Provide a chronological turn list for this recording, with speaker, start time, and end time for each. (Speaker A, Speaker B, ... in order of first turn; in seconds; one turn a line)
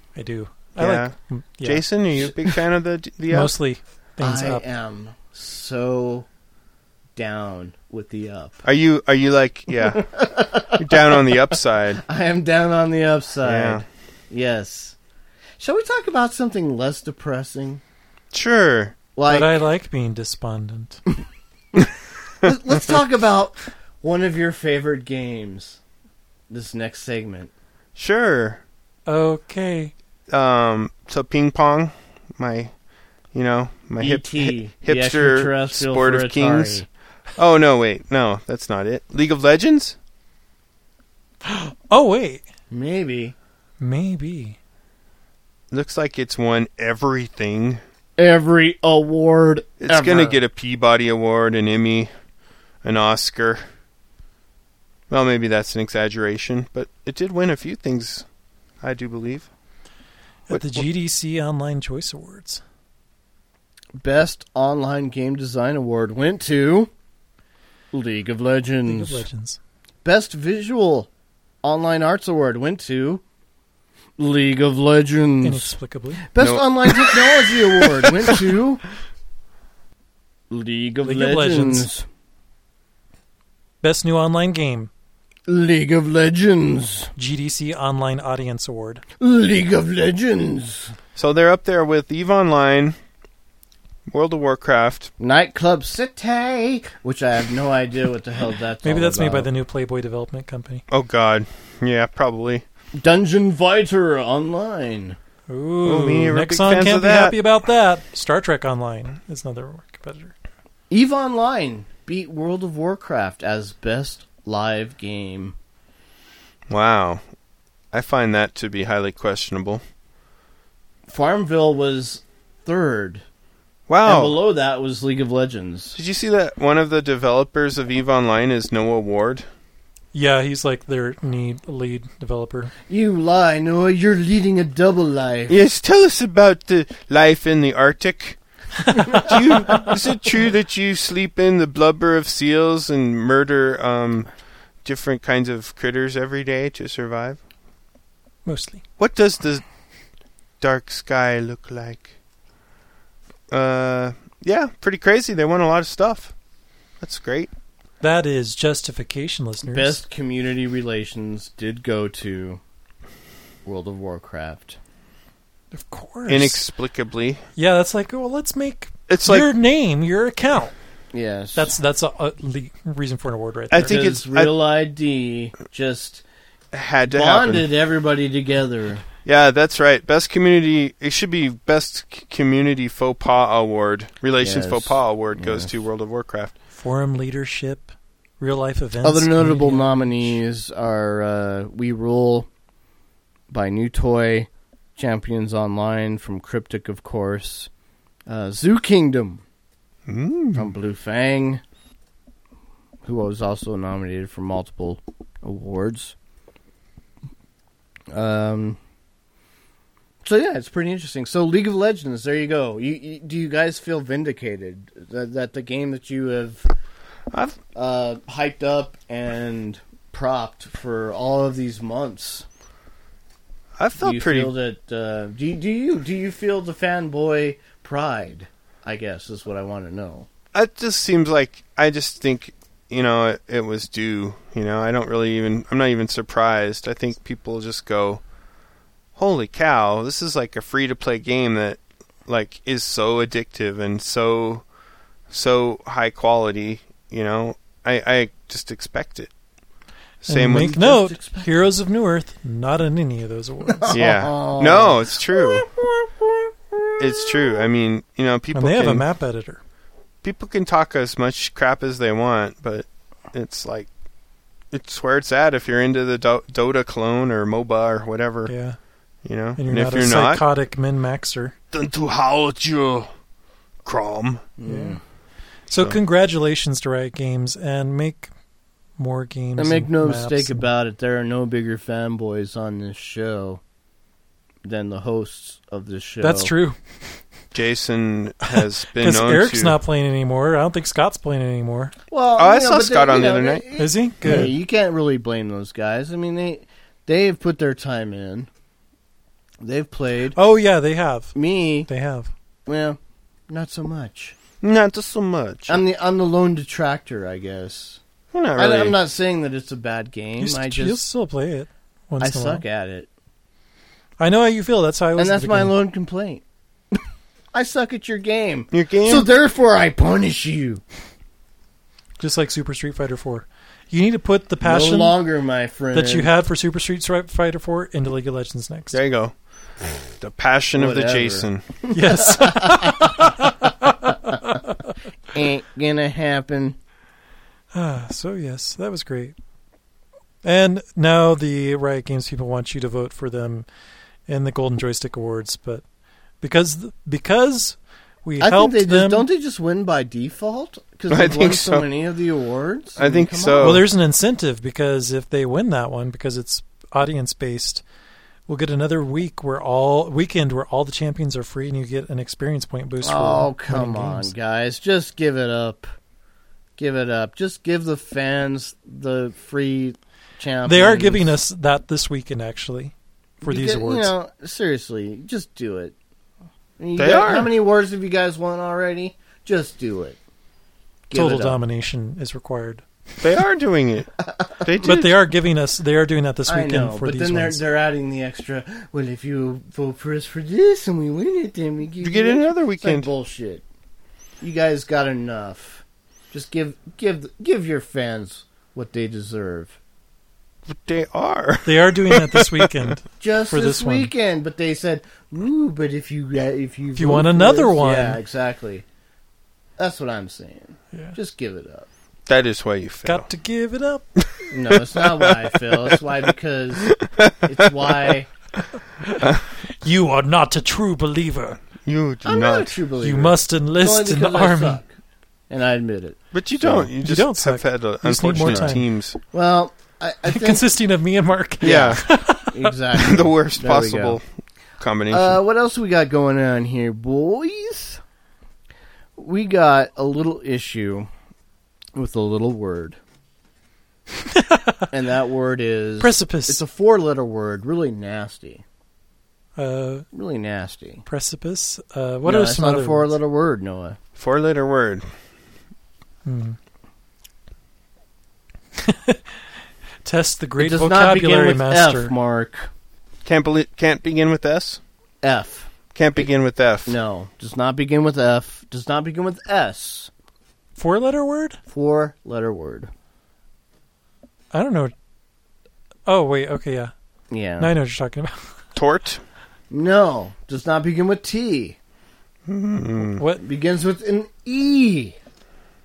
Speaker A: 0.1-2.5
Speaker B: 0.8-3.5
Speaker A: 3.3-4.6
Speaker C: 4.2-6.3
Speaker C: 7.2-8.6
Speaker B: 8.6-10.0
Speaker C: 9.8-11.4
Speaker B: 10.8-12.0
Speaker C: 12.0-14.9
Speaker B: 13.4-13.8
Speaker C: 15.6-17.8
Speaker B: 18.3-18.9
Speaker C: 19.1-19.6
Speaker A: 19.3-21.0
Speaker C: 22.4-25.8
Speaker C: 26.5-27.5
Speaker B: 27.9-28.6
Speaker A: 29.1-29.9
Speaker B: 30.3-32.7
Speaker B: 33.3-40.0
Speaker C: 34.0-36.9
Speaker A: 41.4-42.4
Speaker C: 42.7-43.3
Speaker A: 43.8-44.6
Speaker B: 45.7-47.8
Speaker C: 48.2-50.4
Speaker B: 49.8-52.1
Speaker B: 52.8-53.6
Speaker B: 55.1-58.2
Speaker B: 58.8-59.5
Speaker A: 60.5-62.6
Speaker B: 60.5-60.9
Speaker C: 64.0-66.9
Speaker C: 67.9-69.2
Speaker A: 68.8-69.6
Speaker C: 70.0-71.1
Speaker C: 71.6-73.2
Speaker C: 74.2-75.7
Speaker A: 75.4-76.2
Speaker C: 76.3-78.8
Speaker B: 76.4-77.3
Speaker C: 80.5-82.0
Speaker A: 81.0-81.9
Speaker A: 83.8-84.9
Speaker C: 85.5-87.1
Speaker A: 87.2-89.0
Speaker C: 89.2-90.9
Speaker B: 91.2-93.0
Speaker B: 94.1-95.1
Speaker C: 95.2-99.5
Speaker A: 98.8-100.8
Speaker B: 100.9-102.6
Speaker C: 103.0-105.2
Speaker A: 105.5-110.3
Speaker B: 105.8-107.4
Speaker C: 110.9-115.5
Speaker B: 116.7-117.2
Speaker B: 117.9-119.8
Speaker C: 121.1-123.2
Speaker B: 123.9-124.4
Speaker C: 124.0-126.0
Speaker B: 125.9-129.4
Speaker A: 130.1-132.7
Speaker C: 132.9-135.6
Speaker B: 135.5-138.4
Speaker B: 139.1-144.3
Speaker B: 144.8-147.4
Speaker A: 148.4-148.8
Speaker B: 149.0-149.6
Speaker B: 150.6-152.1
Speaker B: 153.5-156.3
Speaker B: 157.0-157.5
Speaker A: 158.0-160.0
Speaker C: 159.6-162.6
Speaker C: 163.6-164.8
Speaker A: 165.7-166.6
Speaker B: 166.3-167.4
Speaker A: 167.6-170.7
Speaker B: 169.1-169.5
Speaker C: 171.1-171.7
Speaker A: 171.5-174.0
Speaker B: 173.7-174.5
Speaker C: 173.8-176.2
Speaker B: 176.7-177.7
Speaker C: 177.1-179.0
Speaker B: 179.2-186.5
Speaker C: 184.4-185.7
Speaker A: 186.7-190.4
Speaker C: 189.0-192.5
Speaker C: 193.5-197.7
Speaker C: 198.3-199.4
Speaker B: 200.1-200.7
Speaker C: 200.5-201.6
Speaker C: 203.0-206.1
Speaker C: 208.1-208.8
Speaker C: 210.2-216.7
Speaker B: 217.3-217.6
Speaker C: 217.7-222.4
Speaker B: 223.8-224.5
Speaker C: 224.0-230.3
Speaker B: 230.5-238.2
Speaker B: 239.2-244.6
Speaker B: 245.3-249.3
Speaker B: 250.2-250.9
Speaker A: 250.2-254.0
Speaker C: 250.6-251.6
Speaker C: 253.7-257.6
Speaker B: 253.9-255.7
Speaker B: 257.0-259.0
Speaker A: 258.5-259.6
Speaker B: 260.2-263.9
Speaker B: 264.7-268.5
Speaker A: 268.5-268.8
Speaker B: 269.2-270.4
Speaker A: 269.6-271.5
Speaker B: 271.7-273.1
Speaker B: 273.8-274.4
Speaker C: 274.6-275.0
Speaker A: 274.6-275.0
Speaker A: 275.7-278.3
Speaker A: 279.0-280.7
Speaker C: 279.6-283.6
Speaker C: 284.6-286.5
Speaker A: 286.2-286.8
Speaker B: 287.5-289.8
Speaker A: 288.5-291.9
Speaker C: 292.1-298.5
Speaker B: 292.4-293.6
Speaker A: 293.8-294.5
Speaker C: 299.6-300.4
Speaker A: 300.3-301.4
Speaker C: 301.3-301.9
Speaker A: 301.9-302.3
Speaker C: 302.7-303.0
Speaker C: 303.5-304.3
Speaker B: 304.6-305.8
Speaker C: 305.7-308.0
Speaker B: 308.3-309.0
Speaker C: 308.6-311.0
Speaker A: 310.4-312.6
Speaker C: 312.2-313.1
Speaker A: 314.2-315.7
Speaker C: 315.2-316.4
Speaker C: 317.5-320.8
Speaker B: 318.7-319.3
Speaker A: 322.2-325.2
Speaker C: 324.6-326.3
Speaker A: 325.9-329.0
Speaker B: 328.9-329.3
Speaker B: 330.2-331.6
Speaker C: 330.8-333.3
Speaker A: 331.9-334.6
Speaker C: 335.3-336.8
Speaker A: 337.7-339.3
Speaker A: 340.4-343.7
Speaker A: 344.3-345.8
Speaker A: 346.4-349.2
Speaker C: 348.4-353.8
Speaker B: 351.1-351.9
Speaker B: 353.0-353.9
Speaker A: 353.6-357.8
Speaker A: 358.5-364.3
Speaker C: 363.0-365.9
Speaker C: 366.8-371.3
Speaker A: 370.6-374.1
Speaker C: 373.4-375.9
Speaker C: 376.8-380.2
Speaker B: 376.9-377.5
Speaker C: 381.1-381.6
Speaker A: 381.1-382.9
Speaker B: 383.2-385.1
Speaker C: 384.2-384.7
Speaker A: 384.8-387.6
Speaker C: 386.5-393.6
Speaker B: 392.0-393.1
Speaker C: 394.4-399.8
Speaker B: 400.6-402.9
Speaker A: 401.6-404.1
Speaker C: 403.2-408.8
Speaker A: 406.9-408.2
Speaker C: 409.8-411.9
Speaker B: 412.3-413.3
Speaker A: 413.0-414.0
Speaker C: 414.5-416.9
Speaker B: 414.9-416.0
Speaker B: 416.9-418.1
Speaker C: 417.4-418.3
Speaker A: 419.0-421.6
Speaker B: 421.8-422.7
Speaker C: 422.2-424.9
Speaker A: 423.0-424.8
Speaker C: 425.5-426.9
Speaker B: 426.3-429.2
Speaker A: 427.0-428.9
Speaker C: 429.3-430.6
Speaker A: 430.2-432.7
Speaker B: 431.6-432.0
Speaker C: 431.6-434.2
Speaker B: 432.9-434.2
Speaker B: 434.8-435.4
Speaker C: 435.1-438.0
Speaker C: 439.2-441.1
Speaker C: 441.9-443.0
Speaker A: 444.3-444.9
Speaker C: 444.9-448.6
Speaker A: 446.0-446.6
Speaker A: 449.6-450.1
Speaker C: 450.1-451.0
Speaker A: 451.1-453.1
Speaker C: 452.2-454.0
Speaker B: 454.1-455.1
Speaker A: 456.2-456.6
Speaker A: 458.8-459.4
Speaker A: 460.0-462.1
Speaker C: 460.6-462.7
Speaker B: 463.2-464.8
Speaker C: 465.2-465.7
Speaker B: 465.9-466.9
Speaker C: 466.9-470.1
Speaker A: 470.8-471.6
Speaker C: 471.7-472.9
Speaker A: 474.5-474.9
Speaker A: 476.1-476.9
Speaker C: 477.3-477.7
Speaker A: 477.6-478.5
Speaker B: 478.7-479.2
Speaker C: 479.7-481.8
Speaker B: 482.5-483.2
Speaker A: 483.1-483.4
Speaker C: 483.4-485.2